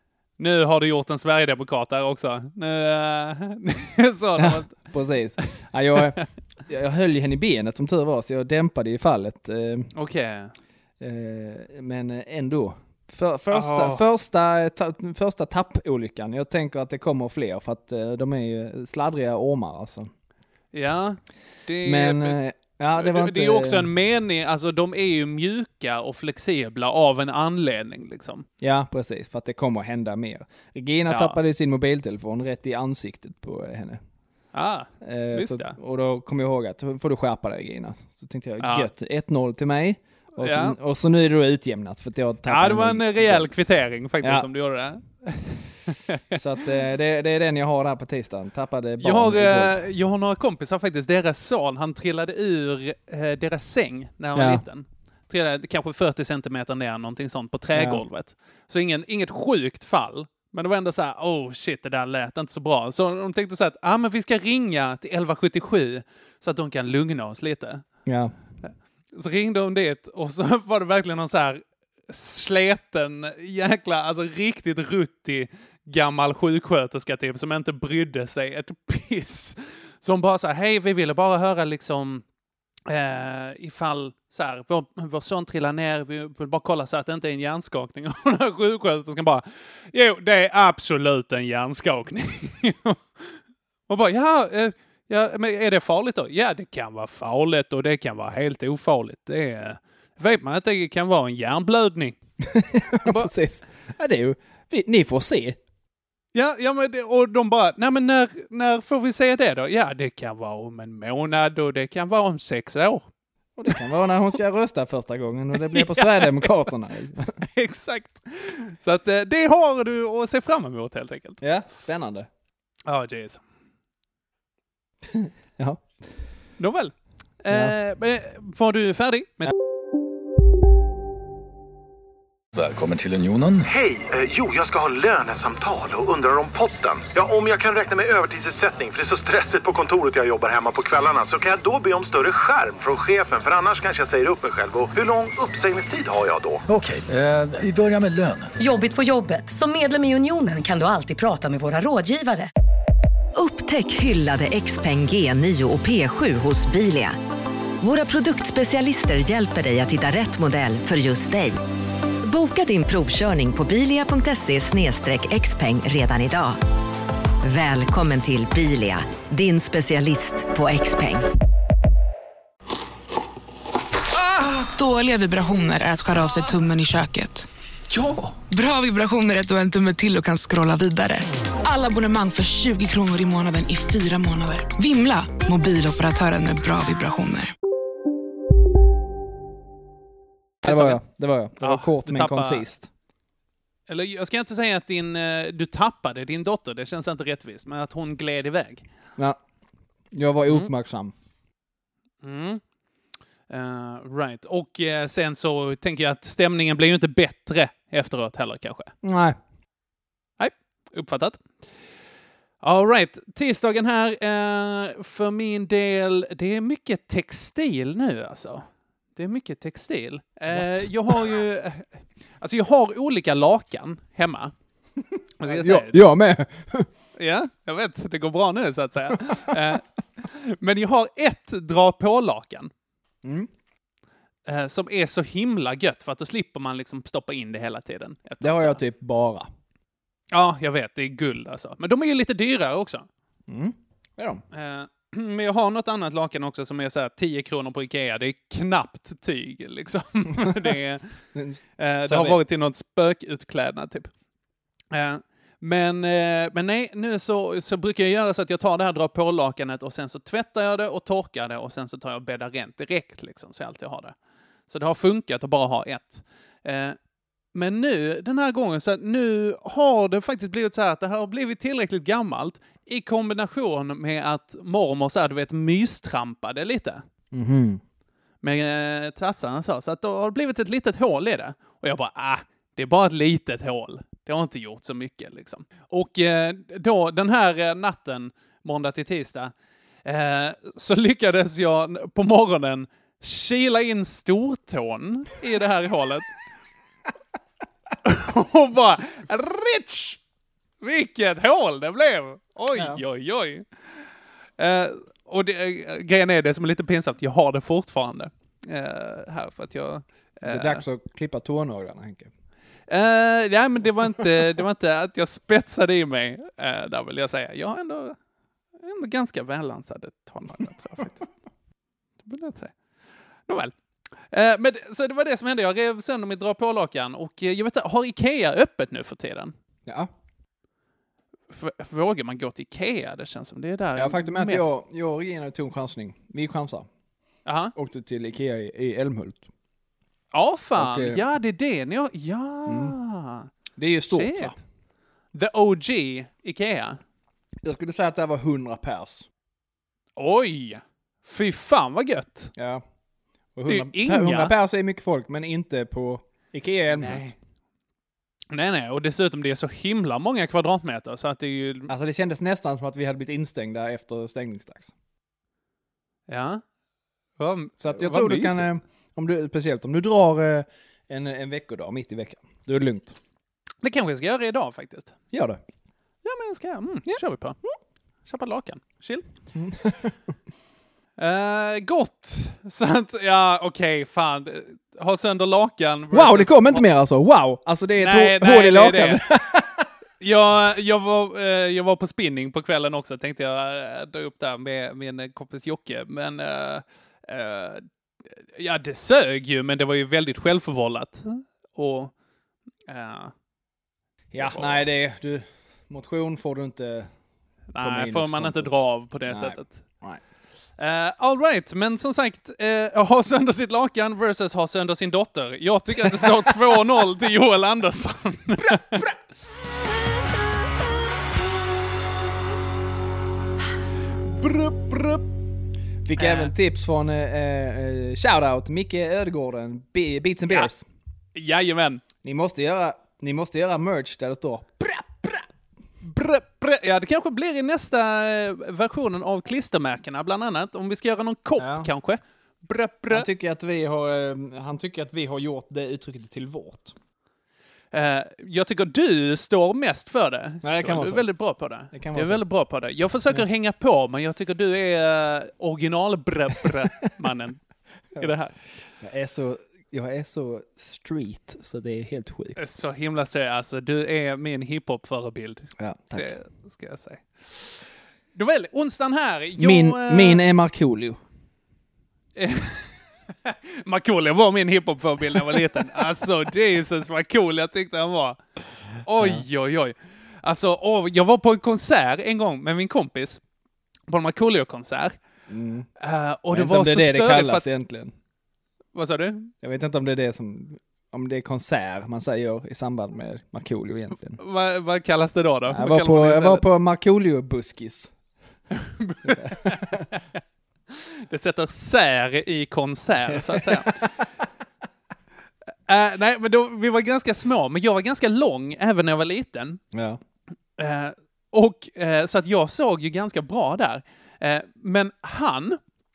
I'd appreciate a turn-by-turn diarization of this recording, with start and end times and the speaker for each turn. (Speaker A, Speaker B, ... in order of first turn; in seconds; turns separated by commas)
Speaker A: 0.4-4.8, Speaker B: 4.4-9.9, Speaker A: 9.9-10.5, Speaker B: 11.0-20.1, Speaker A: 13.5-14.0, Speaker A: 20.7-22.4, Speaker B: 21.8-23.9, Speaker A: 22.9-28.5, Speaker B: 28.6-34.0, Speaker A: 31.1-31.4, Speaker A: 34.5-35.8, Speaker B: 35.0-43.5, Speaker A: 38.6-38.9, Speaker A: 40.4-40.8, Speaker A: 42.5-46.4, Speaker B: 44.2-44.5, Speaker B: 46.3-49.8, Speaker A: 49.0-67.8, Speaker B: 54.4-54.6, Speaker B: 57.7-58.0, Speaker B: 68.1-68.3, Speaker A: 68.6-82.2, Speaker A: 82.9-102.2, Speaker B: 102.4-105.6, Speaker A: 103.0-103.3, Speaker A: 106.3-113.1, Speaker B: 113.6-117.4, Speaker A: 115.6-116.5, Speaker A: 117.4-121.4, Speaker B: 121.4-122.3, Speaker A: 122.9-123.4, Speaker B: 125.1-126.0, Speaker A: 126.6-129.5, Speaker B: 127.5-127.8, Speaker C: 132.6-133.7, Speaker D: 133.7-146.6, Speaker C: 146.7-148.6, Speaker E: 148.6-152.5, Speaker F: 153.3-157.2, Speaker F: 157.8-161.6, Speaker F: 162.2-166.6, Speaker F: 167.4-171.3, Speaker G: 174.2-177.5, Speaker G: 178.5-187.5, Speaker A: 190.6-191.0, Speaker B: 190.6-192.9, Speaker A: 191.6-192.6, Speaker A: 193.9-198.8, Speaker B: 200.1-201.1, Speaker A: 202.2-202.6, Speaker A: 203.5-208.9, Speaker B: 209.0-209.4, Speaker A: 210.4-211.5, Speaker A: 212.6-224.5, Speaker B: 220.5-221.4, Speaker A: 225.4-226.0, Speaker B: 225.4-226.9, Speaker A: 227.2-232.7, Speaker B: 229.3-229.5, Speaker B: 233.2-233.5, Speaker A: 234.5-238.8, Speaker B: 238.4-239.5, Speaker A: 240.3-243.1, Speaker B: 243.5-244.4, Speaker A: 244.5-251.1, Speaker B: 251.3-252.5, Speaker A: 251.8-254.1, Speaker A: 254.9-264.1, Speaker A: 264.7-267.0, Speaker A: 267.5-277.0, Speaker B: 277.3-277.8, Speaker A: 278.4-289.5, Speaker A: 290.1-296.3, Speaker A: 298.1-300.2, Speaker A: 300.8-303.7, Speaker B: 302.7-303.0, Speaker A: 304.6-310.8, Speaker B: 310.4-312.3, Speaker A: 312.9-318.2, Speaker A: 318.8-321.3, Speaker A: 322.2-322.8, Speaker A: 323.5-329.5, Speaker A: 331.5-334.7, Speaker B: 333.9-336.9, Speaker A: 337.5-337.7, Speaker B: 337.8-339.5, Speaker A: 340.3-343.5, Speaker B: 340.8-341.2, Speaker B: 342.7-343.0, Speaker B: 343.8-344.6, Speaker A: 344.1-344.6, Speaker A: 345.3-347.0, Speaker B: 347.6-349.3, Speaker A: 350.2-352.5, Speaker B: 352.6-352.8, Speaker B: 353.6-357.3, Speaker A: 353.7-354.6, Speaker A: 356.9-357.4, Speaker A: 358.5-361.9, Speaker B: 361.9-364.9, Speaker A: 366.3-366.6, Speaker A: 367.4-368.7, Speaker B: 367.8-373.2, Speaker A: 373.8-375.1, Speaker B: 375.3-375.6, Speaker A: 376.2-377.6, Speaker B: 377.1-377.7, Speaker A: 378.3-379.3, Speaker B: 379.5-380.2, Speaker A: 381.2-386.9, Speaker B: 386.1-389.9, Speaker A: 388.0-389.2, Speaker A: 390.2-397.9, Speaker A: 398.6-402.1, Speaker A: 402.9-403.3, Speaker B: 404.3-407.1, Speaker A: 404.4-404.8, Speaker A: 407.7-409.8, Speaker B: 407.8-410.2, Speaker A: 410.8-419.1, Speaker B: 416.0-416.7, Speaker B: 418.7-419.0, Speaker A: 424.3-425.2, Speaker B: 426.0-430.9, Speaker A: 426.2-426.5, Speaker A: 431.4-432.0, Speaker B: 432.2-435.5, Speaker A: 436.0-443.3, Speaker B: 441.6-441.9, Speaker B: 443.1-446.9, Speaker A: 447.9-457.6, Speaker B: 450.6-452.4, Speaker A: 458.2-458.6, Speaker B: 458.9-462.6, Speaker A: 462.6-467.8, Speaker B: 465.8-466.3, Speaker A: 468.4-470.4, Speaker B: 469.6-471.2, Speaker A: 472.4-478.4, Speaker A: 479.0-483.4, Speaker B: 479.2-479.4, Speaker A: 484.1-485.2, Speaker B: 485.5-485.9, Speaker A: 486.0-487.6, Speaker B: 486.5-488.1, Speaker A: 488.9-489.5, Speaker B: 489.6-494.4, Speaker A: 494.4-496.6, Speaker B: 495.7-498.1, Speaker A: 498.8-500.2, Speaker B: 499.3-500.1, Speaker A: 500.9-504.1, Speaker B: 503.3-504.1, Speaker A: 505.9-509.8, Speaker B: 509.9-510.2, Speaker A: 510.8-515.8